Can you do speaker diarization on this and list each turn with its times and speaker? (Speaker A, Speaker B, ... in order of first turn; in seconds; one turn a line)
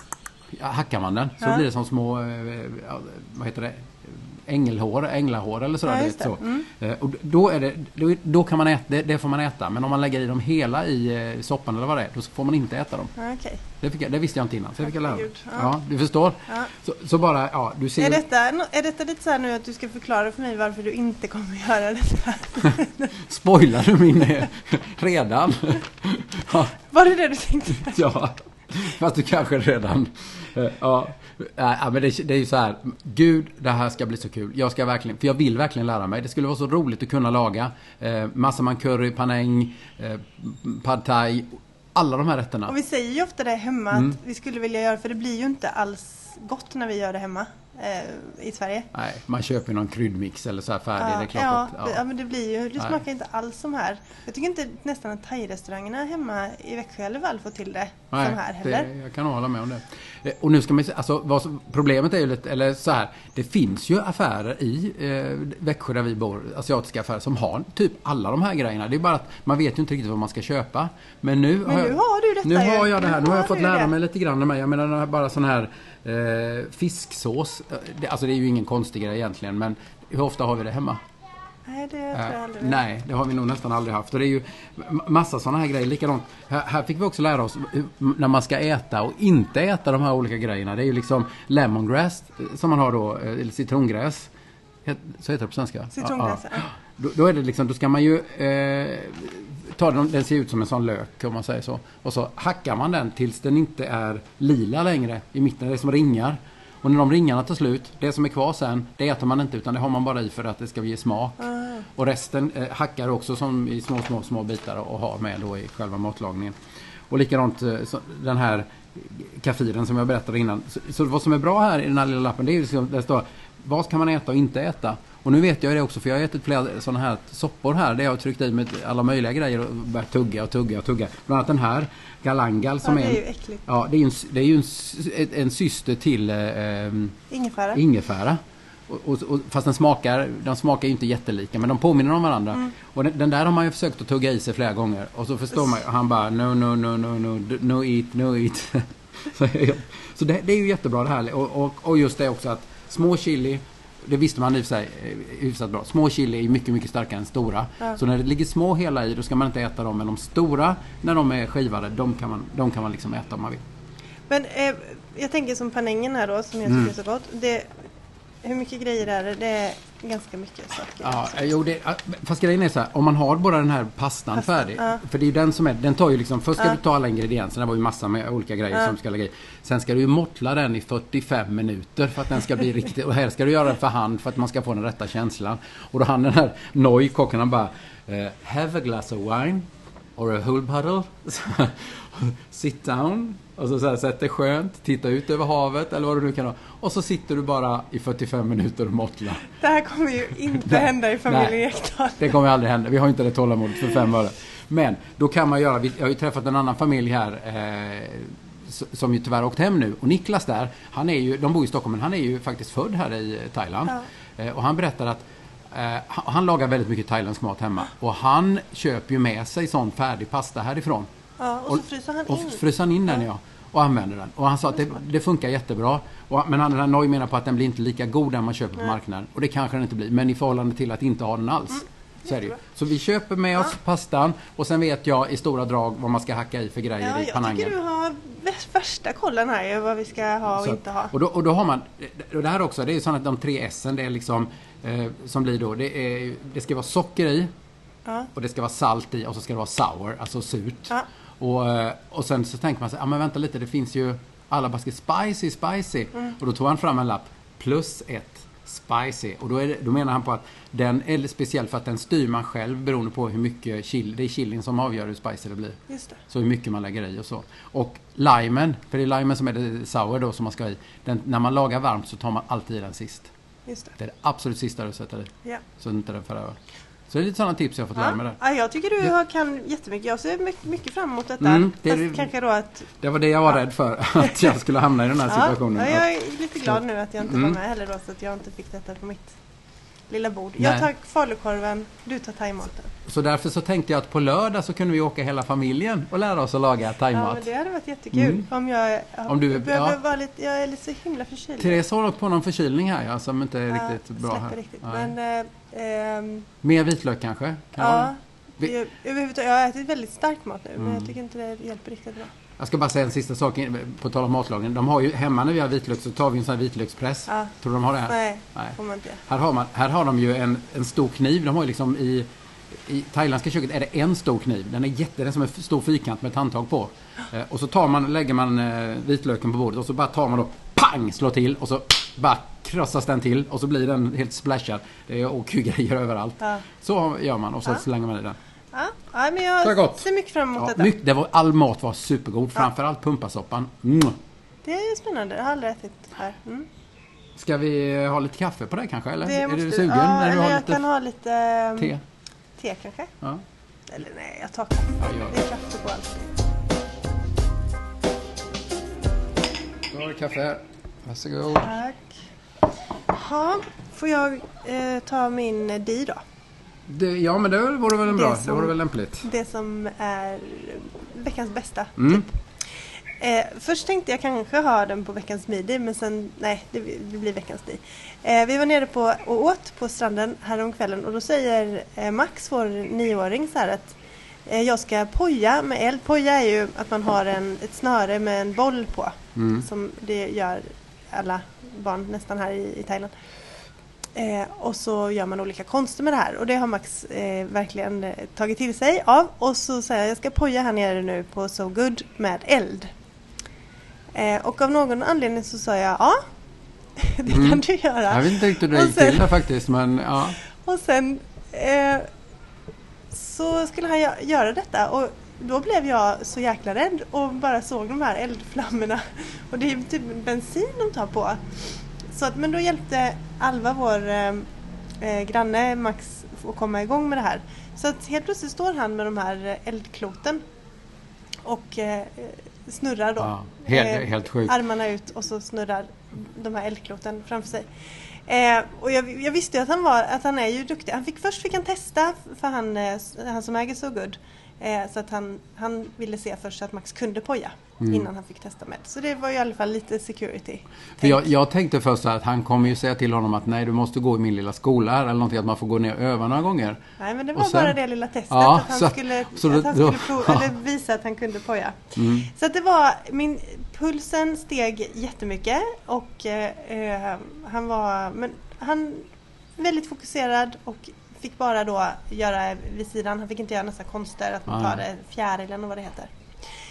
Speaker A: 0.5-13.1
Speaker B: 5.8-6.7
Speaker B: 13.2-13.6
Speaker A: 13.8-18.2
Speaker B: 14.8-15.7
Speaker B: 18.0-23.2
Speaker A: 23.1-26.7
Speaker B: 26.8-28.2
Speaker A: 27.8-42.7
Speaker B: 42.7-48.9
Speaker A: 48.9-52.0
Speaker B: 51.0-58.9
Speaker A: 58.1-81.0
Speaker B: 71.6-73.9
Speaker B: 81.7-82.8
Speaker A: 82.1-94.3
Speaker A: 94.8-111.4
Speaker B: 95.9-96.7
Speaker B: 111.4-111.8
Speaker A: 111.9-116.5
Speaker A: 117.1-137.2
Speaker B: 132.8-133.6
Speaker B: 137.3-137.8
Speaker A: 137.7-163.6
Speaker B: 164.3-167.7
Speaker A: 166.7-166.9
Speaker B: 168.4-171.4
Speaker A: 171.0-199.4
Speaker B: 174.4-175.0
Speaker B: 199.5-202.3
Speaker A: 200.6-201.6
Speaker A: 202.2-221.1
Speaker B: 221.4-222.6
Speaker A: 221.7-237.8
Speaker B: 237.0-241.1
Speaker A: 240.6-247.5
Speaker A: 248.3-273.3
Speaker B: 265.9-266.2
Speaker B: 273.7-273.9
Speaker A: 274.0-276.6
Speaker A: 277.1-278.4
Speaker B: 277.9-282.9
Speaker A: 281.4-282.3
Speaker A: 283.0-287.6
Speaker B: 284.2-284.5
Speaker B: 285.3-289.4
Speaker B: 290.1-292.9
Speaker A: 290.6-290.9
Speaker A: 293.1-297.4
Speaker B: 297.1-301.8
Speaker A: 298.1-298.5
Speaker A: 299.3-300.0
Speaker A: 301.6-305.1
Speaker B: 303.7-306.5
Speaker A: 306.6-308.7
Speaker B: 307.8-312.3
Speaker A: 310.8-311.1
Speaker A: 312.6-338.4
Speaker B: 318.1-319.2
Speaker B: 338.7-340.9
Speaker A: 339.6-340.1
Speaker A: 340.6-344.1
Speaker B: 344.6-346.7
Speaker A: 347.4-350.8
Speaker B: 349.2-351.9
Speaker B: 352.6-353.1
Speaker B: 353.9-356.3
Speaker A: 355.0-355.4
Speaker A: 359.9-361.7
Speaker B: 361.6-362.2
Speaker B: 363.1-366.2
Speaker A: 366.9-369.2
Speaker B: 368.1-372.3
Speaker A: 372.0-372.2
Speaker B: 373.2-393.1
Speaker A: 389.4-389.6
Speaker B: 394.1-402.9
Speaker B: 404.1-406.2
Speaker B: 407.0-409.4
Speaker A: 407.3-410.4
Speaker B: 410.4-412.1
Speaker B: 413.1-424.5
Speaker B: 425.0-430.4
Speaker B: 431.4-451.3
Speaker A: 433.2-434.6
Speaker A: 447.8-448.1
Speaker A: 451.0-456.8
Speaker B: 457.0-476.1
Speaker A: 457.4-457.8
Speaker A: 458.3-460.5
Speaker A: 461.9-462.3
Speaker A: 474.5-474.8